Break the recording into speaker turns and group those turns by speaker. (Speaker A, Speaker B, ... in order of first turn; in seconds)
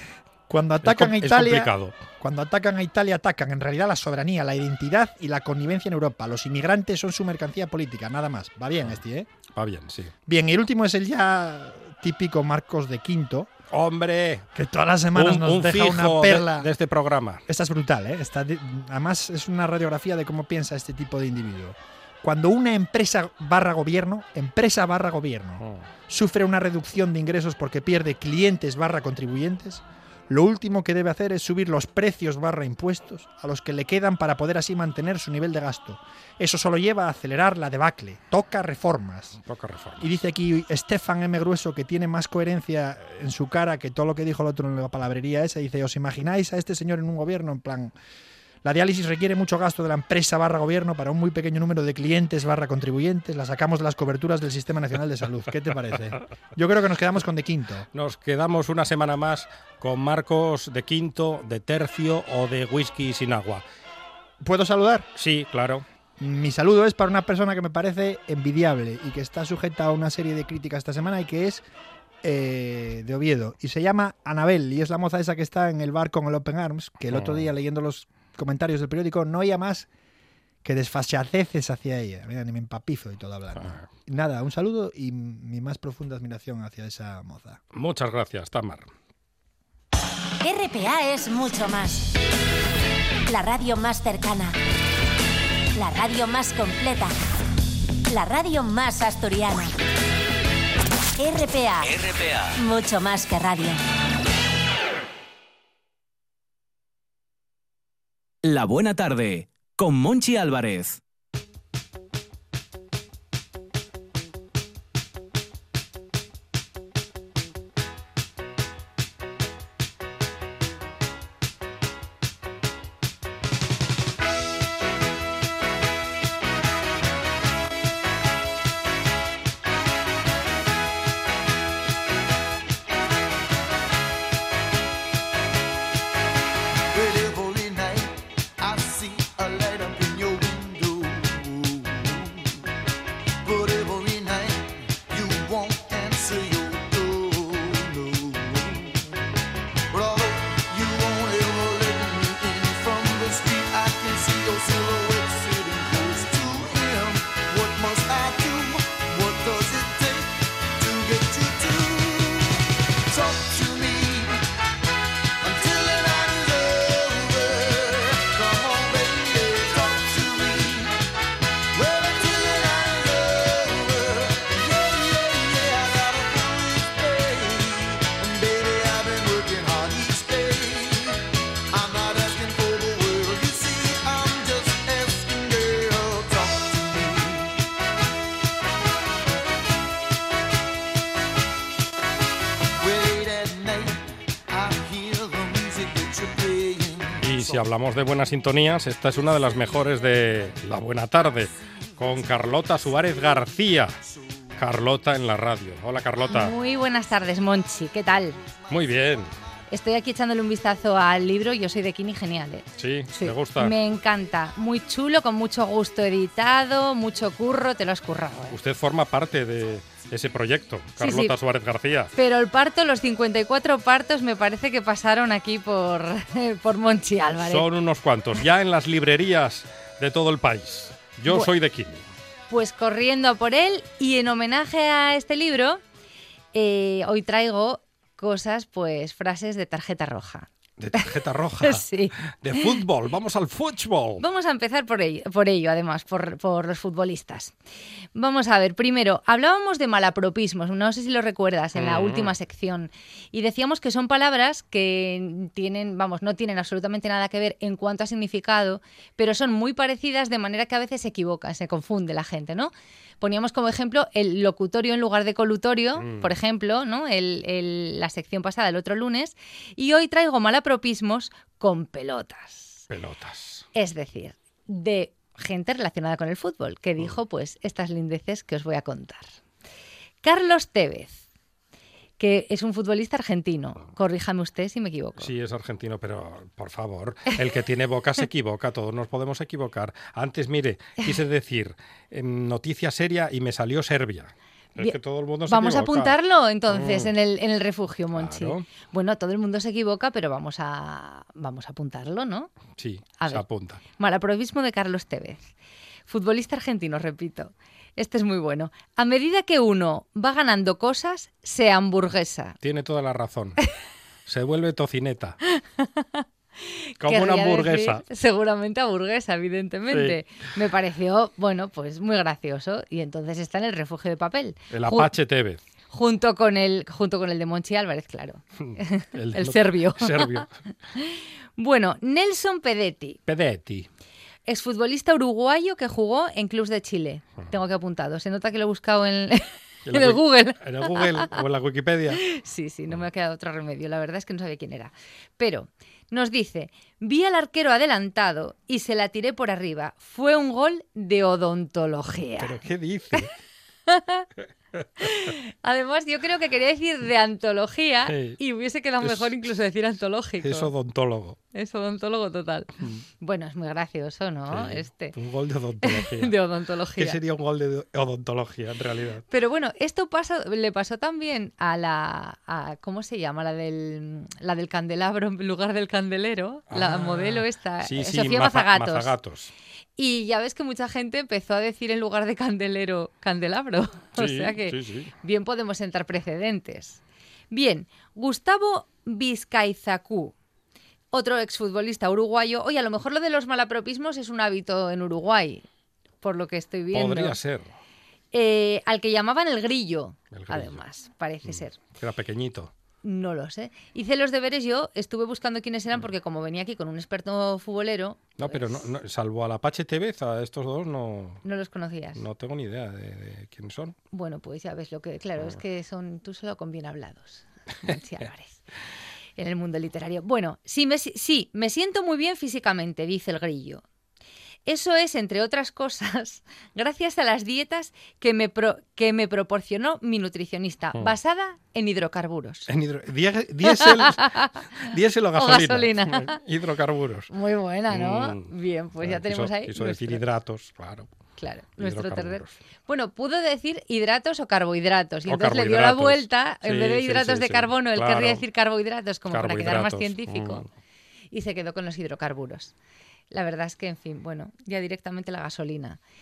Speaker A: 0.5-9.3, 10.3-13.5, 14.6-16.7, 17.5-39.4, 40.0-47.9, 48.6-57.9, 64.4-65.1, 66.2-71.7, 72.2-79.9, 80.6-87.6
Speaker B: 0.8-2.0, 9.6-10.1, 13.7-14.5, 15.2-17.4, 39.5-40.2, 57.9-63.6, 65.2-65.8, 77.1-77.5, 83.6-83.9, 87.7-88.9, 197.2-204.0, 204.6-206.5, 208.7-209.3, 212.8-213.7, 218.5-222.1, 227.5-232.1, 240.8-244.2, 251.8-252.3, 266.0-266.3, 272.9-273.7, 285.2-296.1, 296.7-297.1, 298.1-298.6, 302.8-303.8, 312.6-313.6, 314.3-315.4, 317.0-318.0, 319.9-320.2, 324.7-325.6, 328.6-330.5, 333.3-333.9, 339.9-342.2, 352.4-353.3, 355.0-355.3, 358.1-358.4, 359.0-359.5, 360.4-361.4, 364.5-366.4, 367.0-369.2, 376.7-379.5, 384.1-385.1, 396.9-397.7, 400.3-400.8, 401.4-402.7, 408.4-411.4, 412.2-413.9, 432.7-437.3, 437.9-441.1, 441.8-442.6, 445.3-448.4, 449.3-450.7
Speaker C: 90.4-92.1, 93.3-94.6, 95.8-97.2, 98.1-99.7, 101.2-103.8
Speaker D: 102.1-102.5, 108.5-111.0
Speaker E: 136.9-142.6, 143.4-149.1, 149.9-164.5, 165.4-171.0, 171.7-187.7, 192.8-197.6
Speaker F: 206.3-208.4, 209.7-218.6, 221.0-221.3, 222.2-227.7, 232.5-235.8, 236.5-242.8, 244.2-247.5, 248.2-272.8, 273.8-279.3, 280.2-281.2, 282.2-285.3, 295.5-302.5, 303.2-303.4, 304.0-305.5, 306.1-312.6, 315.5-325.1, 325.9-330.4, 331.0-333.2, 334.5-341.4, 342.2-352.6, 353.9-354.3, 355.0-360.7, 361.5-365.2, 365.8-367.2, 369.3-379.1, 380.0-390.3, 391.1-395.6, 396.2-397.4, 398.3-401.8, 403.0-408.9, 411.4-412.2, 414.1-418.6, 419.4-423.8, 424.7-432.7, 433.6-434.5, 435.4-436.4, 437.3-440.2, 441.4-450.7, 451.3-452.7, 453.3-456.0